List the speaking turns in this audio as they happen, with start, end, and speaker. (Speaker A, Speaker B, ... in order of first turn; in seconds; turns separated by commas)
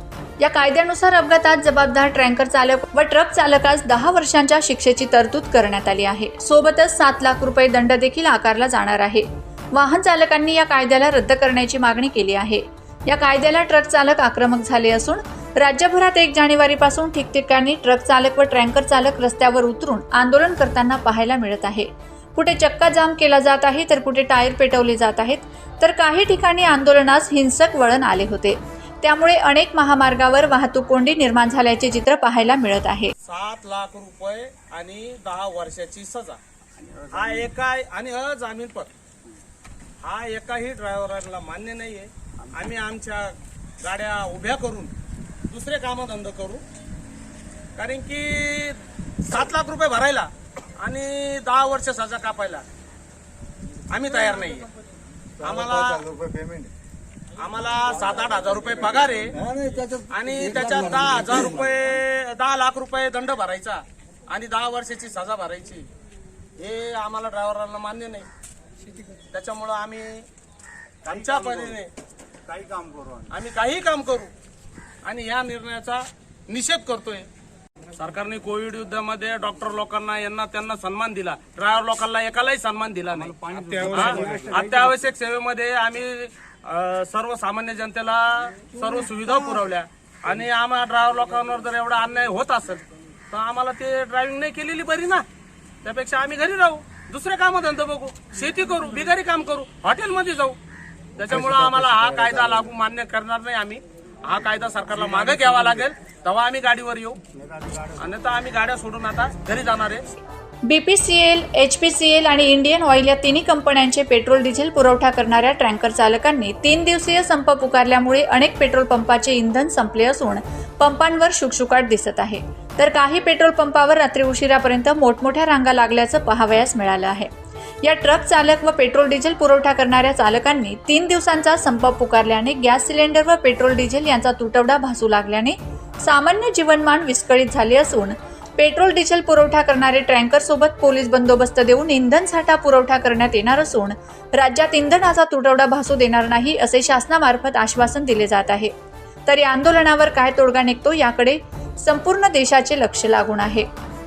Speaker A: 0.4-33.1, Speaker B: 33.2-36.4, Speaker C: 36.9-37.2, Speaker B: 37.1-38.9, Speaker B: 40.0-44.9, Speaker B: 45.5-46.6, Speaker B: 47.8-52.6, Speaker B: 53.9-54.7, Speaker C: 55.4-56.7, Speaker B: 55.4-56.1, Speaker B: 57.4-59.4, Speaker C: 58.8-61.8, Speaker B: 60.1-65.9, Speaker B: 66.6-68.3, Speaker B: 69.3-70.2, Speaker B: 71.0-71.9, Speaker C: 71.2-71.6, Speaker C: 72.5-73.3, Speaker B: 73.3-74.3, Speaker B: 75.0-77.3, Speaker B: 77.9-95.2, Speaker C: 83.3-84.7, Speaker B: 95.8-100.6, Speaker B: 101.2-107.2, Speaker C: 101.3-102.6, Speaker C: 107.6-107.8, Speaker B: 107.9-110.1, Speaker A: 110.6-127.3, Speaker A: 127.8-148.7, Speaker A: 149.3-153.7